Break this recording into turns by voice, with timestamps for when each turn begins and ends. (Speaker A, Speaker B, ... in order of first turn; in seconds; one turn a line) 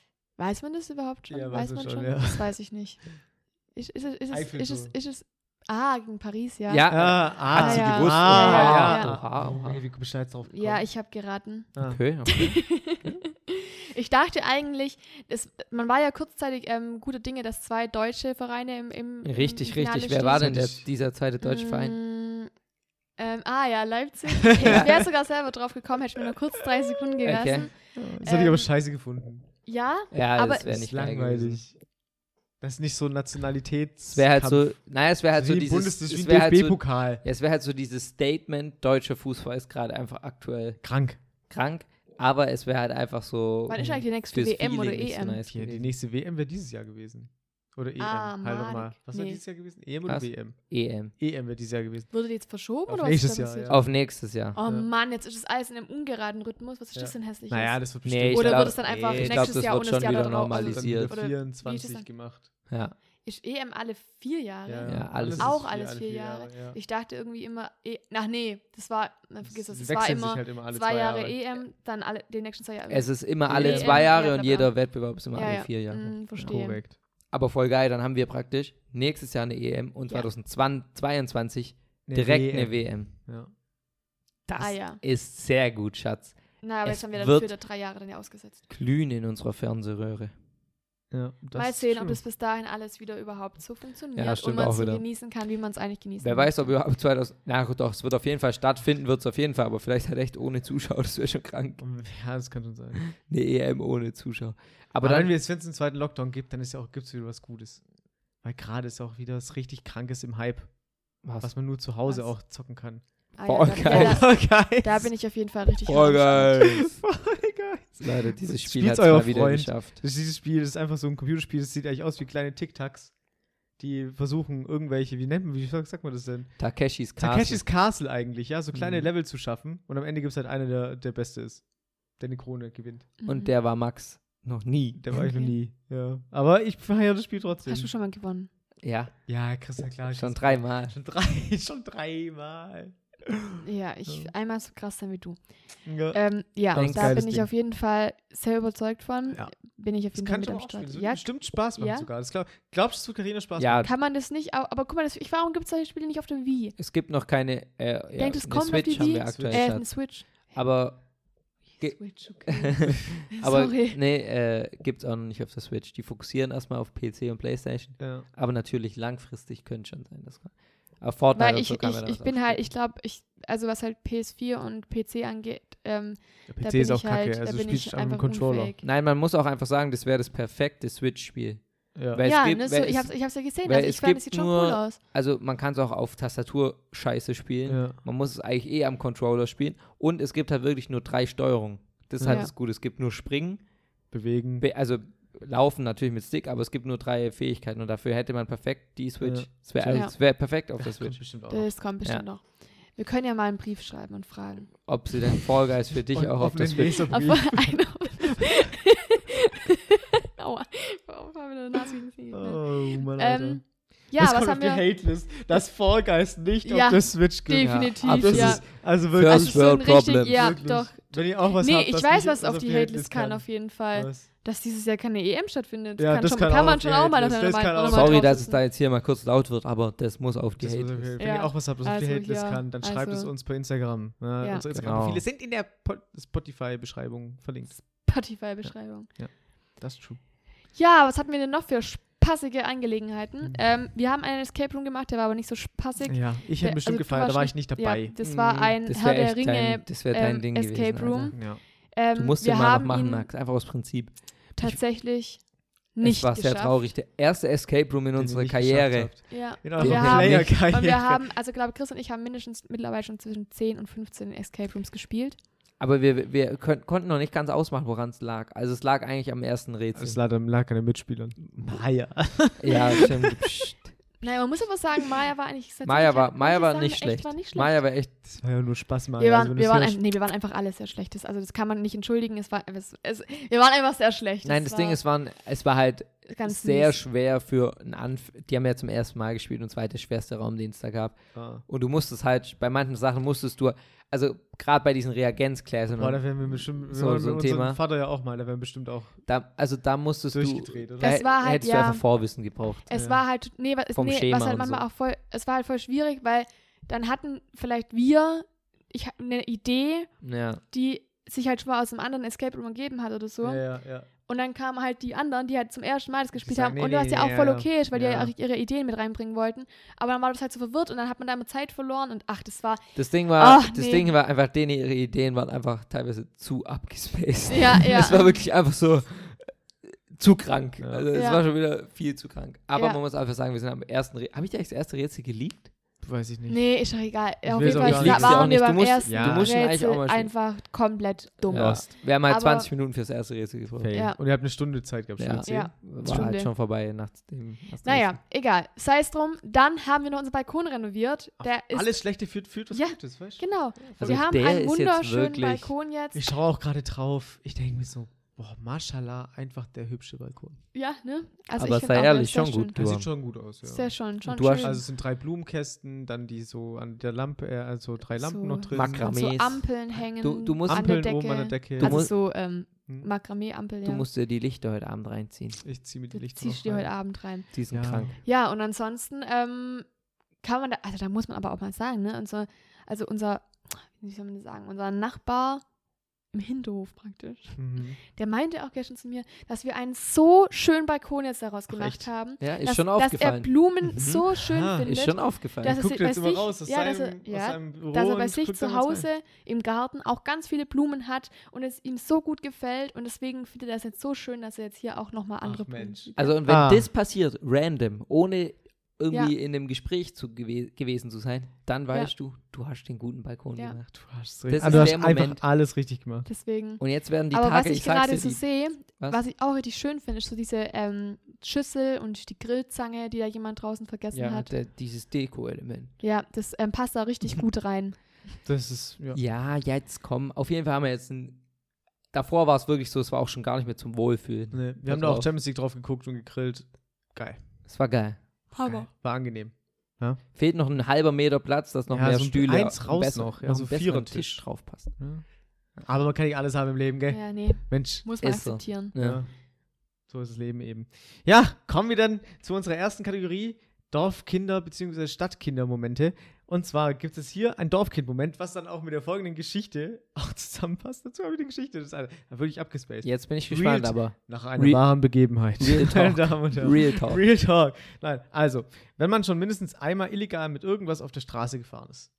Speaker A: 0.4-9.2
Speaker B: 1.3-2.5
Speaker B: 4.3-4.9
Speaker C: 6.7-9.8
Speaker B: 6.9-10.9
Speaker A: 10.5-11.7
Speaker B: 11.7-12.0
Speaker C: 11.8-13.2
Speaker A: 12.2-20.6
Speaker C: 19.2-21.9
Speaker B: 20.4-20.9
Speaker A: 21.4-22.5
Speaker A: 23.2-28.7
Speaker B: 24.6-25.1
Speaker C: 24.6-25.0
Speaker C: 27.2-27.7
Speaker B: 27.9-29.4
Speaker A: 29.6-30.8
Speaker C: 30.1-31.6
Speaker B: 30.6-31.8
Speaker B: 32.6-34.8
Speaker C: 34.1-40.8
Speaker B: 35.3-37.2
Speaker B: 40.8-41.2
Speaker C: 41.5-45.9
Speaker A: 43.7-45.4
Speaker B: 43.8-44.0
Speaker B: 45.5-52.1
Speaker A: 48.0-49.4
Speaker C: 50.1-51.1
Speaker A: 52.1-62.1
Speaker B: 52.9-54.0
Speaker C: 53.7-54.6
Speaker B: 54.6-54.9
Speaker B: 56.9-59.7
Speaker C: 58.0-61.2
Speaker B: 60.5-62.5
Speaker C: 62.7-63.0
Speaker A: 63.2-76.8
Speaker B: 64.7-66.8
Speaker C: 64.8-65.6
Speaker B: 69.4-71.6
Speaker C: 72.9-76.5
Speaker B: 73.5-74.1
Speaker B: 76.3-77.0
Speaker C: 77.3-83.1
Speaker B: 82.0-83.5
Speaker C: 84.5-87.5
Speaker A: 84.6-85.0
Speaker A: 86.6-88.6
Speaker C: 88.7-90.3
Speaker B: 91.1-92.2
Speaker A: 91.5-96.8
Speaker C: 94.1-95.0
Speaker C: 96.2-101.8
Speaker B: 101.8-103.0
Speaker C: 103.0-105.3
Speaker B: 105.0-107.8
Speaker B: 108.4-110.7
Speaker C: 111.2-111.5
Speaker B: 111.4-113.0
Speaker A: 112.0-112.3
Speaker A: 113.3-116.7
Speaker C: 113.5-114.2
Speaker B: 113.8-115.1
Speaker C: 115.8-117.0
Speaker B: 116.6-123.1
Speaker C: 118.0-120.0
Speaker B: 123.8-126.6
Speaker C: 126.6-127.6
Speaker B: 127.2-131.6
Speaker C: 128.7-129.1
Speaker B: 132.2-133.1
Speaker A: 133.2-133.5
Speaker C: 133.2-135.0
Speaker B: 135.0-137.9
Speaker A: 135.1-135.5
Speaker A: 137.7-138.5
Speaker C: 138.8-139.1
Speaker B: 139.3-144.3
Speaker C: 140.1-140.9
Speaker A: 143.6-145.4
Speaker B: 145.8-147.5
Speaker A: 146.1-152.1
Speaker C: 146.7-147.2
Speaker B: 150.1-153.9
Speaker C: 153.6-153.9
Speaker A: 153.8-156.8
Speaker C: 156.8-172.6
Speaker A: 158.2-160.6
Speaker B: 158.7-159.7
Speaker A: 161.8-164.0
Speaker B: 168.0-168.2
Speaker A: 171.3-178.8
Speaker B: 176.5-178.7
Speaker C: 178.8-193.6
Speaker B: 181.9-182.2
Speaker A: 182.2-185.0
Speaker B: 187.7-188.0
Speaker B: 192.2-192.5
Speaker A: 192.2-192.5
Speaker B: 194.1-194.6
Speaker C: 194.6-201.2
Speaker B: 199.2-201.7
Speaker A: 201.5-204.9
Speaker C: 204.8-207.2
Speaker B: 205.9-208.7
Speaker A: 207.0-214.8
Speaker B: 212.3-213.6
Speaker B: 214.2-219.6
Speaker A: 216.6-228.6
Speaker C: 217.6-220.6
Speaker B: 220.3-224.2
Speaker B: 226.0-228.2
Speaker C: 227.9-231.2
Speaker B: 230.6-237.7
Speaker A: 231.2-233.3
Speaker A: 234.4-234.8
Speaker C: 234.8-235.2
Speaker A: 237.7-239.1
Speaker B: 239.2-240.2
Speaker A: 240.7-253.3
Speaker B: 246.0-248.1
Speaker C: 248.2-251.4
Speaker B: 251.3-251.6
Speaker C: 252.1-254.8
Speaker A: 254.6-256.8
Speaker C: 256.0-259.2
Speaker B: 258.1-261.3
Speaker A: 259.3-265.4
Speaker C: 259.7-260.5
Speaker C: 265.8-270.2
Speaker B: 269.9-273.4
Speaker C: 272.6-273.9
Speaker A: 274.2-277.8
Speaker C: 275.8-278.3
Speaker B: 278.4-280.0
Speaker A: 279.2-285.0
Speaker C: 284.4-297.8
Speaker A: 286.3-287.0
Speaker B: 291.3-291.6
Speaker B: 295.9-299.2
Speaker C: 299.2-302.9
Speaker B: 300.3-301.2
Speaker A: 301.0-302.0
Speaker A: 302.9-310.1
Speaker B: 302.9-303.2
Speaker C: 303.9-304.8
Speaker C: 310.2-310.6
Speaker A: 310.7-313.7
Speaker B: 313.4-314.1
Speaker A: 314.2-324.1
Speaker B: 316.4-318.3
Speaker C: 322.9-329.6
Speaker A: 327.5-328.3
Speaker C: 330.1-335.7
Speaker B: 330.8-331.1
Speaker A: 331.1-331.4
Speaker A: 332.8-333.0
Speaker B: 336.0-336.9
Speaker A: 336.5-342.7
Speaker B: 337.4-339.6
Speaker C: 337.6-340.3
Speaker C: 341.5-344.0
Speaker B: 341.5-341.8
Speaker B: 343.7-345.7
Speaker A: 343.9-344.2
Speaker C: 345.2-348.1
Speaker A: 345.5-346.5
Speaker A: 347.8-356.3
Speaker B: 351.4-354.4
Speaker C: 354.0-355.7
Speaker B: 356.1-360.6
Speaker A: 360.7-362.8
Speaker C: 361.6-363.1
Speaker B: 362.7-369.1
Speaker A: 363.6-364.8
Speaker C: 364.2-364.8
Speaker A: 368.1-374.1
Speaker C: 368.7-370.9
Speaker B: 370.7-372.1
Speaker C: 371.8-372.1
Speaker C: 373.8-375.6
Speaker B: 375.6-376.9
Speaker A: 376.1-377.5
Speaker C: 377.5-378.1
Speaker B: 377.7-378.1
Speaker A: 378.1-379.9
Speaker A: 380.4-385.6
Speaker A: 386.3-406.4
Speaker B: 387.6-388.0
Speaker B: 391.7-392.1
Speaker C: 392.4-394.2
Speaker B: 394.4-394.9
Speaker C: 394.8-395.8
Speaker B: 395.6-399.1
Speaker B: 405.4-406.9
Speaker C: 406.1-415.4
Speaker B: 413.9-416.3
Speaker A: 416.2-424.5
Speaker C: 416.8-418.4
Speaker C: 424.1-425.9
Speaker A: 426.0-428.2
Speaker B: 428.4-429.2
Speaker C: 429.1-431.4
Speaker C: 432.1-435.3
Speaker B: 434.5-437.4
Speaker C: 437.6-438.2
Speaker A: 438.5-438.9
Speaker B: 438.6-440.2
Speaker C: 440.3-444.9
Speaker B: 441.9-445.2
Speaker B: 445.8-448.1
Speaker A: 447.1-448.9
Speaker C: 448.2-449.2
Speaker B: 448.9-449.3
Speaker B: 450.1-472.1
Speaker C: 463.0-464.8
Speaker C: 465.6-467.2